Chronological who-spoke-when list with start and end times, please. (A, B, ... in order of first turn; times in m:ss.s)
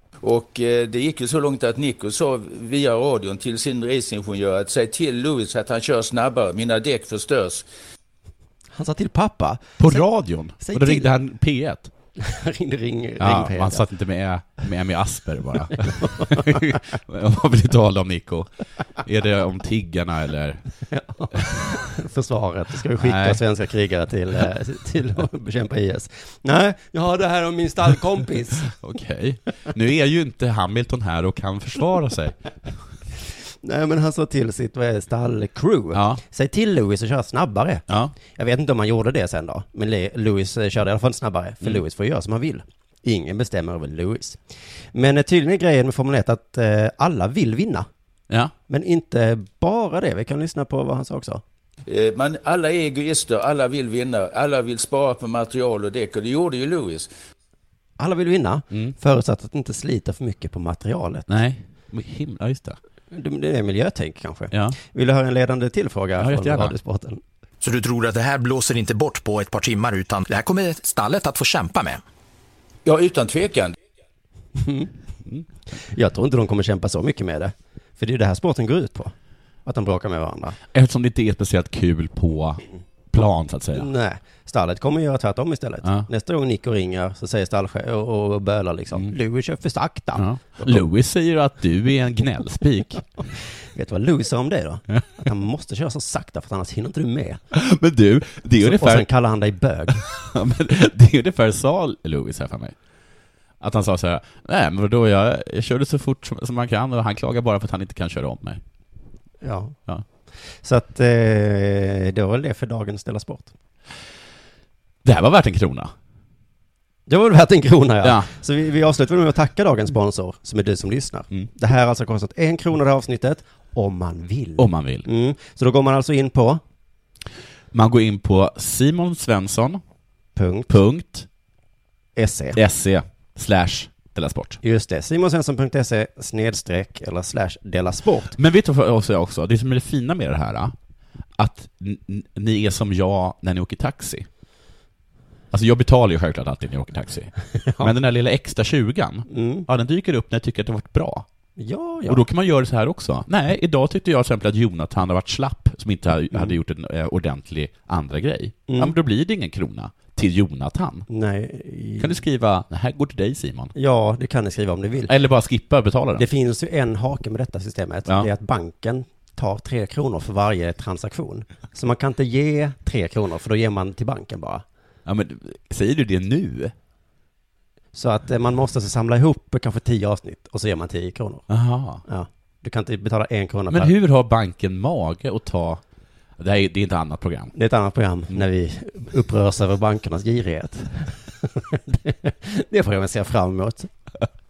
0:00.2-0:07.6 A
0:08.7-0:10.0 B
0:09.8-0:11.9 C
0:10.6-0:11.1 B
0:12.2-0:13.8 B
0:13.2-0:18.5 C
0:15.9-0:16.6 B
0:19.0-0:20.6 C
0:20.9-0:28.6 B
0:23.0-0:23.4 C
0:28.6-0:32.4 C
0:33.6-0:44.4 B
0:35.9-0:36.2 C
0:37.9-0:38.1 C
0:44.9-0:47.9 B
0:48.7-0:51.4 B
0:51.9-0:57.1 A
0:58.0-1:01.3 B
0:58.7-0:59.0 C
1:01.3-1:02.8 C
1:03.1-1:07.2 B
1:04.5-1:04.8 C
1:06.2-1:06.7 C
1:07.6-1:12.0 D
1:12.8-1:13.7 A
1:14.6-1:14.9 B
1:15.8-1:19.1 B
1:19.6-1:20.6 B
1:20.7-1:23.9 C
1:23.7-1:30.8 B
1:30.2-1:33.1 C
1:33.7-1:37.4 B
1:37.5-1:39.1 C
1:38.6-1:40.0 B
1:40.0-1:42.7 C
1:43.6-1:48.6 C
1:49.4-1:49.8 B
1:50.6-1:53.5 B
1:55.0-1:55.9 C
1:57.1-2:06.6 B
1:58.0-1:58.3 C
2:04.6-2:05.1 C
2:07.7-2:09.8 C
2:10.4-2:10.8 B
2:10.7-2:11.3 C
2:12.2-2:12.6 B
2:12.5-2:14.6 C
2:14.6-2:18.4 B
2:18.3-2:20.7 C
2:21.4-2:24.3 C
2:25.5-2:31.2 C
2:27.6-2:27.9 B
2:29.3-2:29.6 B
2:31.6-2:32.2 B
2:32.1-2:41.1 C
2:38.7-2:38.9 B
2:41.1-2:42.2 B
2:42.0-2:43.7 C
2:43.7-2:45.1 B
2:45.0-2:46.3 C
2:46.2-2:54.6 B
2:55.0-2:56.7 C
2:57.9-3:01.5 B
3:01.5-3:02.0 C
3:02.0-3:03.9 B
3:03.7-3:05.8 C
3:06.4-3:07.5 C
3:07.5-3:13.9 B